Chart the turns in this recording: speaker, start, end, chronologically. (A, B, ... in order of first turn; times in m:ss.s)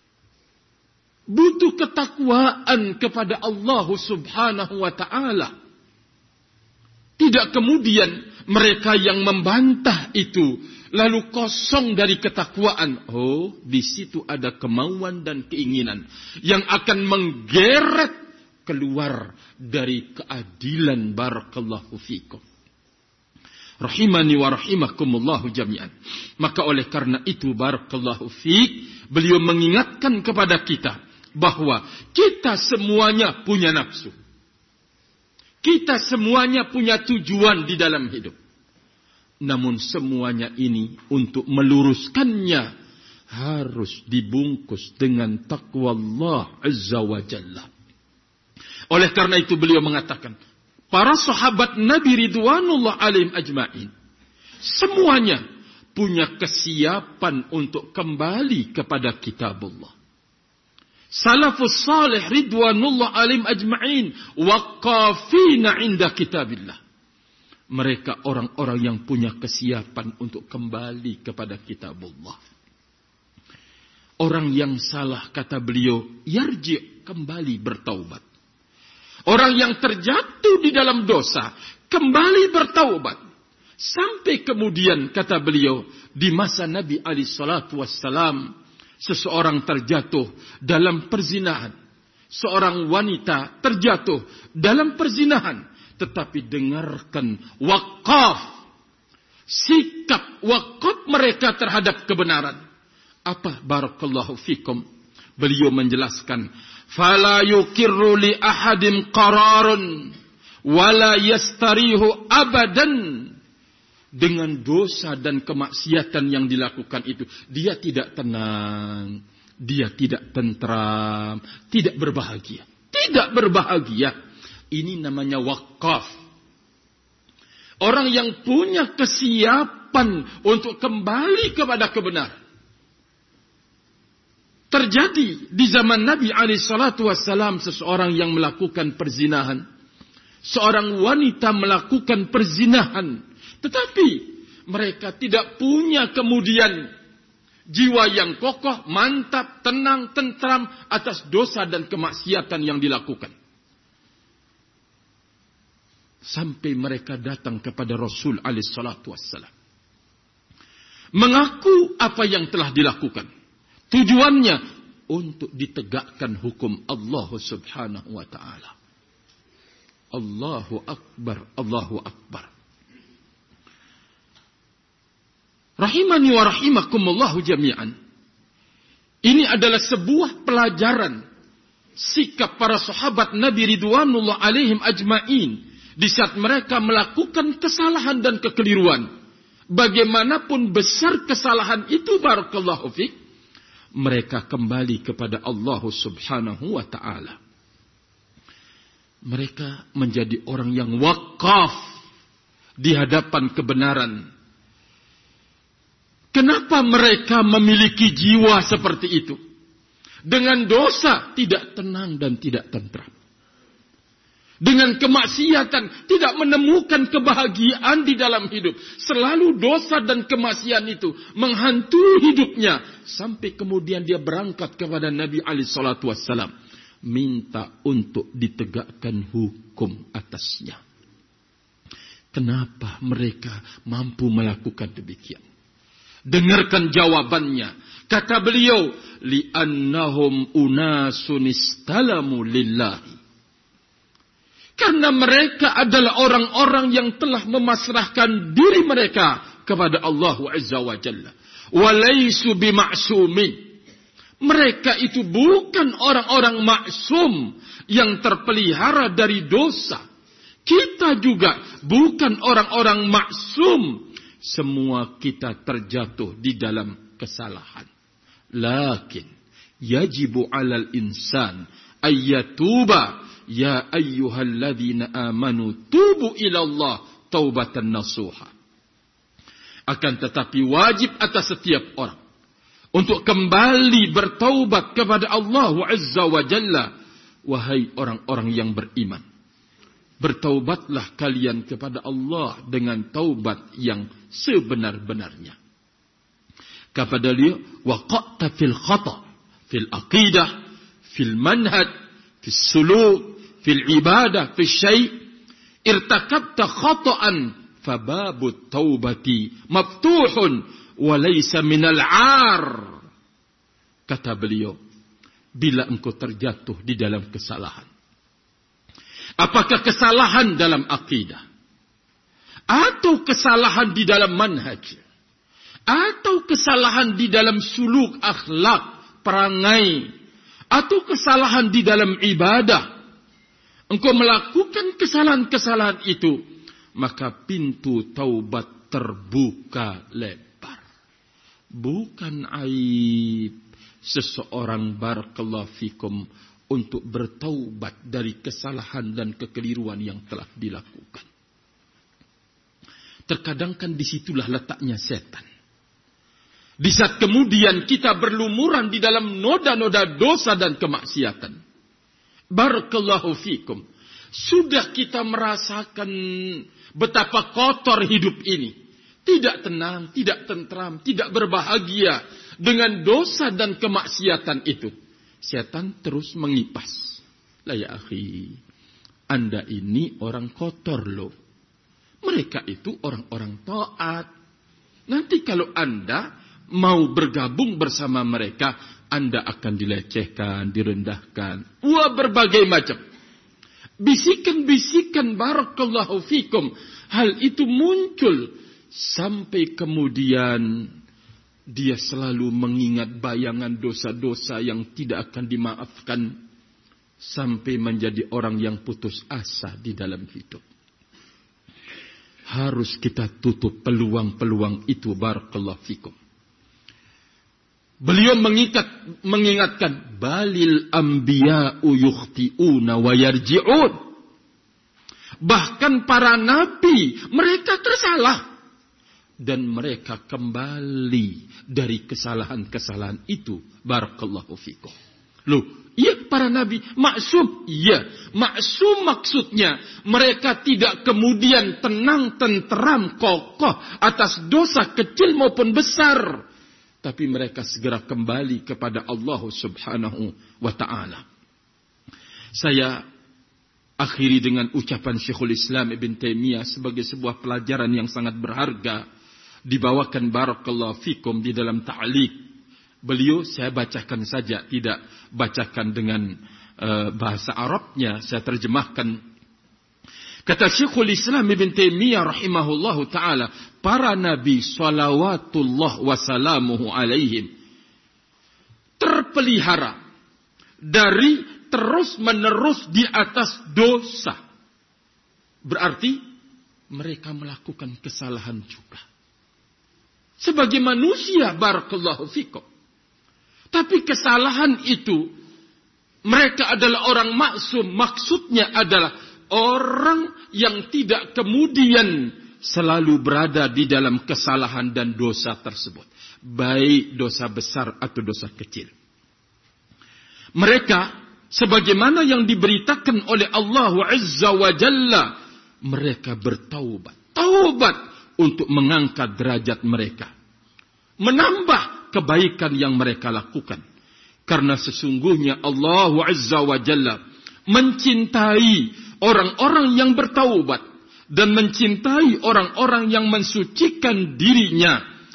0:01.3-0:05.5 A
0:07.2-0:22.4 A
0:23.8-0:34.1 A
0:35.6-0:38.3 A
0:39.4-0:42.7 A
0:43.3-0:47.7 A
0:48.9-0:50.3 A
0:50.9-0:53.9 A
0:54.6-0:55.4 A
0:55.9-0:59.9 A
1:01.2-1:06.8 A
1:07.7-1:12.4 A
1:14.2-1:18.2 A
1:19.3-1:23.2 A
1:23.8-1:28.4 A
1:29.0-1:31.7 A
1:32.3-1:38.5 A
1:39.5-1:42.6 A
1:43.3-1:44.8 A
1:45.4-1:50.1 A
1:50.7-1:53.3 A
1:54.2-2:04.1 A
2:04.7-2:06.1 A
2:07.8-2:12.3 A
2:14.7-2:19.6 A
2:20.4-2:26.9 A
2:27.7-2:33.3 A
2:36.2-2:39.5 A
2:41.2-2:43.3 A
2:43.9-2:48.7 A
2:50.1-2:52.5 A
2:55.8-2:57.9 A
2:59.2-3:01.2 A
3:02.0-3:09.0 A
3:09.7-3:13.1 A
3:14.0-3:17.4 A
3:19.3-3:21.8 A
3:22.8-3:24.2 A
3:26.3-3:29.4 A
3:30.3-3:33.1 A
3:34.6-3:46.5 A
3:47.0-3:50.8 A
3:52.3-3:55.4 A
3:56.3-4:03.2 A
4:04.8-4:13.5 A
4:14.4-4:20.0 A
4:20.6-4:27.9 A
4:28.6-4:29.3 A
4:29.8-4:38.5 A
4:39.9-4:42.2 A
4:42.9-4:46.9 A
4:47.5-4:49.2 A
4:50.2-4:55.6 A
4:56.9-5:00.5 A
5:01.1-5:01.9 A
5:02.4-5:05.1 A
5:05.8-5:12.9 A
5:14.1-5:14.8 A
5:15.6-5:17.9 A
5:19.4-5:21.4 A
5:22.7-5:25.0 A
5:25.9-5:30.0 A
5:30.7-5:32.8 A
5:33.9-5:36.4 A
5:37.0-5:40.8 A
5:41.8-5:51.2 A
5:53.3-5:55.4 A
5:56.8-6:01.6 A
6:02.5-6:08.7 A
6:09.2-6:18.6 A
6:19.3-6:21.3 A
6:22.2-6:24.3 A
6:25.1-6:26.2 A
6:26.8-6:33.0 A
6:34.0-6:40.8 A
6:41.7-6:46.3 A
6:47.2-6:50.6 A
6:52.5-6:56.2 A
6:58.0-7:04.0 A
7:05.4-7:08.4 A
7:09.4-7:14.9 A
7:15.5-7:26.4 A
7:27.0-7:31.2 A
7:32.6-7:33.0 A
7:34.0-7:39.0 A
7:39.7-7:42.3 A
7:43.0-7:46.2 A
7:46.8-7:49.1 A
7:50.5-7:57.5 A
7:59.0-8:00.0 A
8:00.9-8:04.4 A
8:05.6-8:06.2 A
8:06.9-8:09.0 A
8:10.4-8:12.6 A
8:13.7-8:15.2 A
8:16.3-8:28.9 A
8:30.6-8:35.3 A
8:35.8-8:40.3 A
8:41.2-8:43.8 A
8:44.5-8:47.2 A
8:47.7-8:55.0 A